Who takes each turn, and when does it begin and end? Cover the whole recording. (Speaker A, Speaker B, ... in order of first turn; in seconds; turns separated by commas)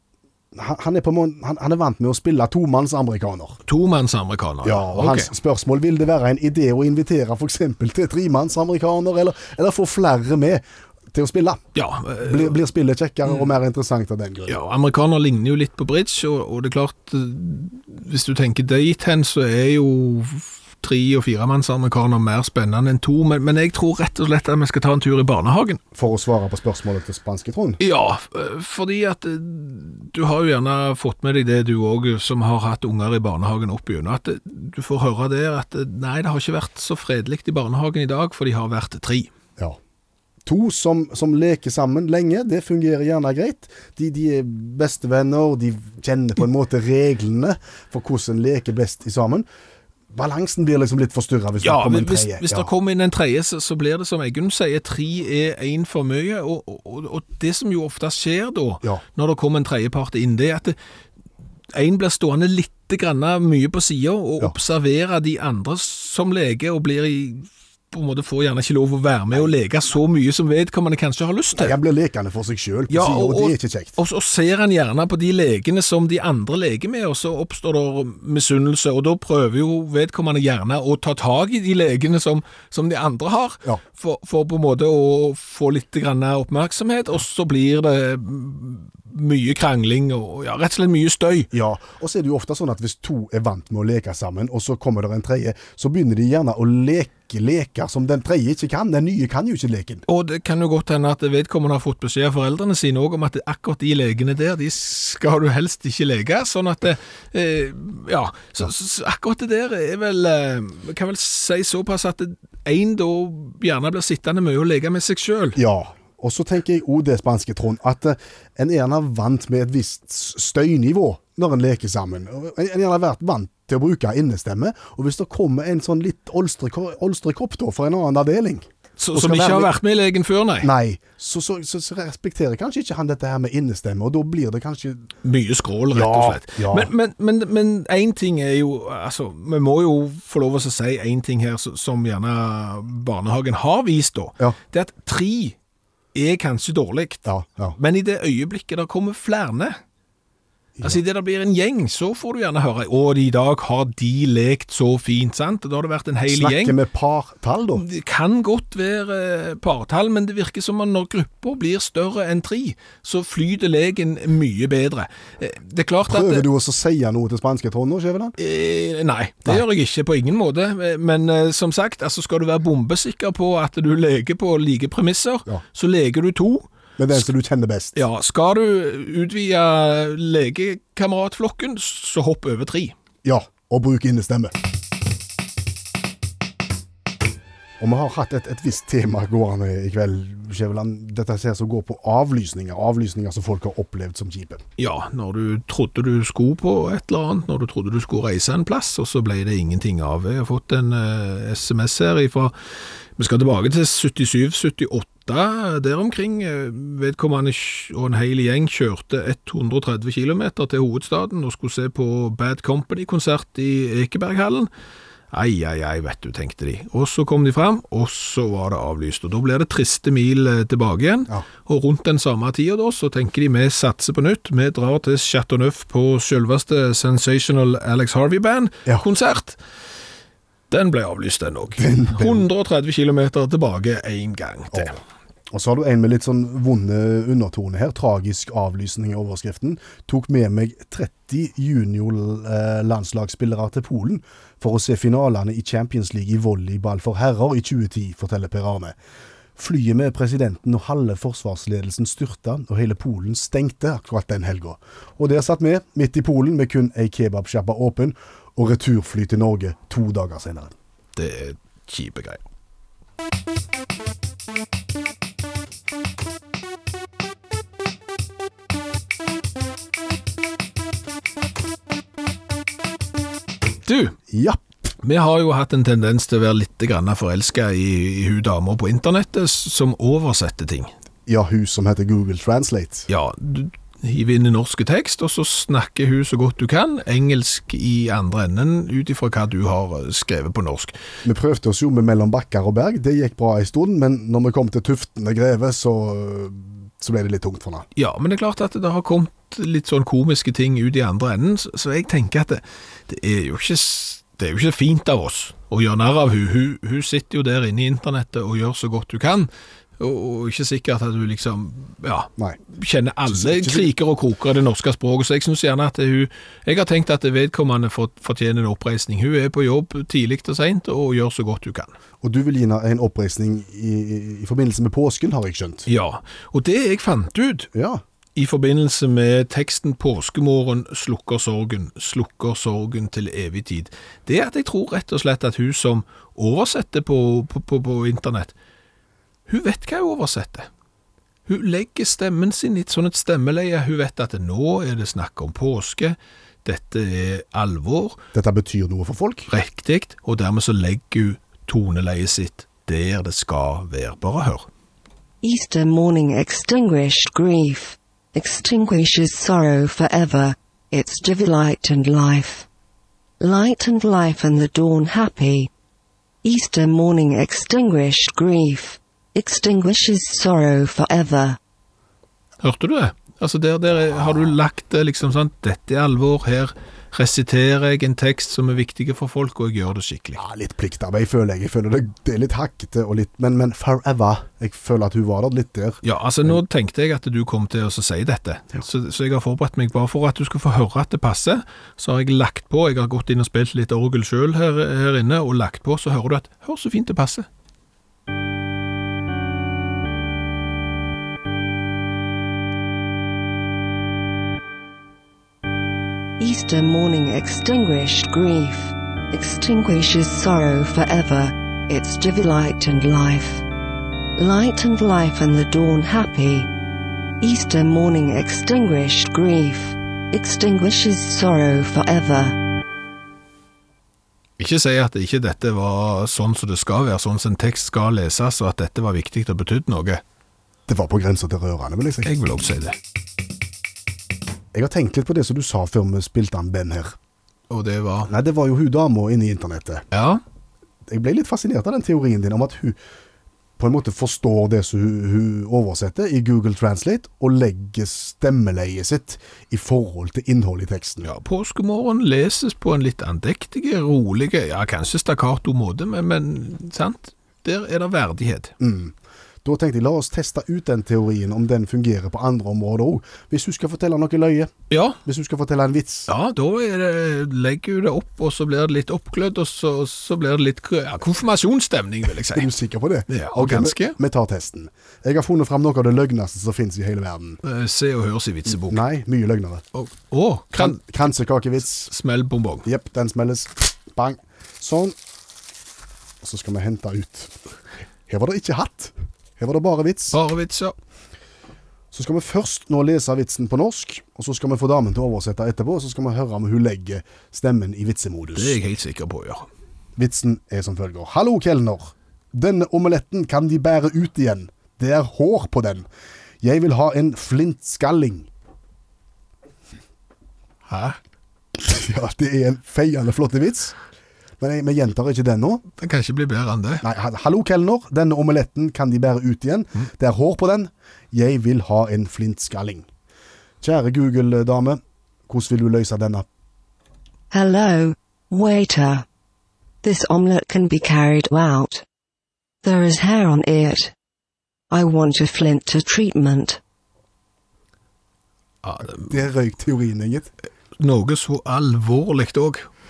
Speaker A: 0.5-3.6, Speaker B: 3.7-5.3, Speaker A: 4.6-11.6, Speaker B: 11.8-12.6, Speaker A: 12.2-14.6, Speaker B: 14.5-25.8, Speaker A: 25.9-27.8, Speaker B: 27.8-39.3, Speaker A: 40.4-49.5, Speaker A: 50.1-52.7, Speaker B: 51.6-60.8, Speaker B: 61.7-71.8, Speaker A: 71.6-74.0, Speaker B: 72.9-91.5, Speaker A: 91.5-100.0, Speaker B: 100.1-115.6, Speaker A: 115.5-129.7, Speaker B: 129.0-130.7, Speaker A: 130.6-135.1, Speaker B: 135.2-145.6, Speaker A: 135.9-136.9, Speaker B: 146.1-149.8, Speaker A: 147.2-147.8, Speaker B: 150.8-156.8, Speaker A: 156.3-157.8, Speaker B: 157.8-166.4, Speaker A: 166.1-168.3, Speaker B: 168.4-177.3, Speaker A: 177.0-178.0, Speaker B: 177.9-182.9, Speaker A: 183.2-184.5, Speaker A: 187.8-194.6, Speaker B: 194.8-202.5, Speaker B: 203.2-214.7, Speaker B: 215.3-229.6, Speaker B: 230.7-235.0, Speaker A: 231.8-232.4, Speaker A: 234.7-235.0, Speaker A: 235.5-248.9, Speaker A: 249.6-260.7, Speaker B: 261.1-262.4, Speaker B: 273.9-274.2, Speaker A: 274.3-274.6, Speaker B: 275.0-280.9, Speaker A: 281.3-283.1, Speaker B: 283.1-290.9, Speaker A: 291.2-297.9, Speaker B: 297.9-321.9, Speaker A: 313.3-313.9, Speaker A: 322.2-325.9, Speaker B: 325.9-327.7, Speaker A: 327.7-328.0, Speaker B: 328.4-338.5, Speaker B: 339.5-340.7, Speaker B: 341.5-348.2, Speaker A: 348.3-349.5, Speaker B: 349.5-354.7, Speaker C: 355.4-362.7, Speaker C: 363.4-365.7, Speaker C: 366.4-371.6, Speaker B: 372.6-380.4, Speaker A: 380.4-386.6, Speaker B: 386.0-397.4, Speaker C: 406.4-413.6, Speaker C: 414.4-416.7, Speaker C: 417.4-422.6, Speaker B: 424.6-430.2, Speaker A: 430.9-432.3, Speaker B: 432.2-432.9, Speaker A: 434.7-437.1, Speaker B: 437.7-438.3, Speaker A: 438.2-440.1, Speaker B: 440.1-440.4, Speaker A: 441.1-443.0, Speaker A: 443.8-451.3, Speaker B: 451.2-458.7, Speaker A: 458.8-464.7, Speaker B: 464.9-465.2, Speaker A: 465.2-466.3, Speaker B: 466.3-472.7, Speaker A: 472.5-477.6, Speaker B: 473.3-474.2, Speaker B: 477.6-479.0, Speaker A: 478.7-479.8, Speaker B: 479.9-481.0, Speaker A: 480.7-482.1, Speaker B: 482.1-482.9, Speaker A: 482.8-485.1, Speaker A: 486.4-487.5, Speaker A: 488.3-490.4, Speaker B: 490.3-490.9, Speaker A: 492.1-498.8, Speaker B: 498.5-499.7, Speaker A: 500.1-506.1, Speaker A: 506.6-508.5, Speaker B: 510.9-511.2, Speaker A: 511.8-513.9, Speaker A: 514.6-515.8, Speaker B: 516.0-517.0, Speaker A: 517.0-523.1, Speaker A: 523.8-526.5, Speaker C: 527.5-529.2, Speaker C: 530.0-532.0, Speaker C: 532.8-534.1, Speaker C: 534.9-536.8, Speaker B: 538.8-539.3, Speaker A: 539.1-540.5, Speaker B: 541.0-542.9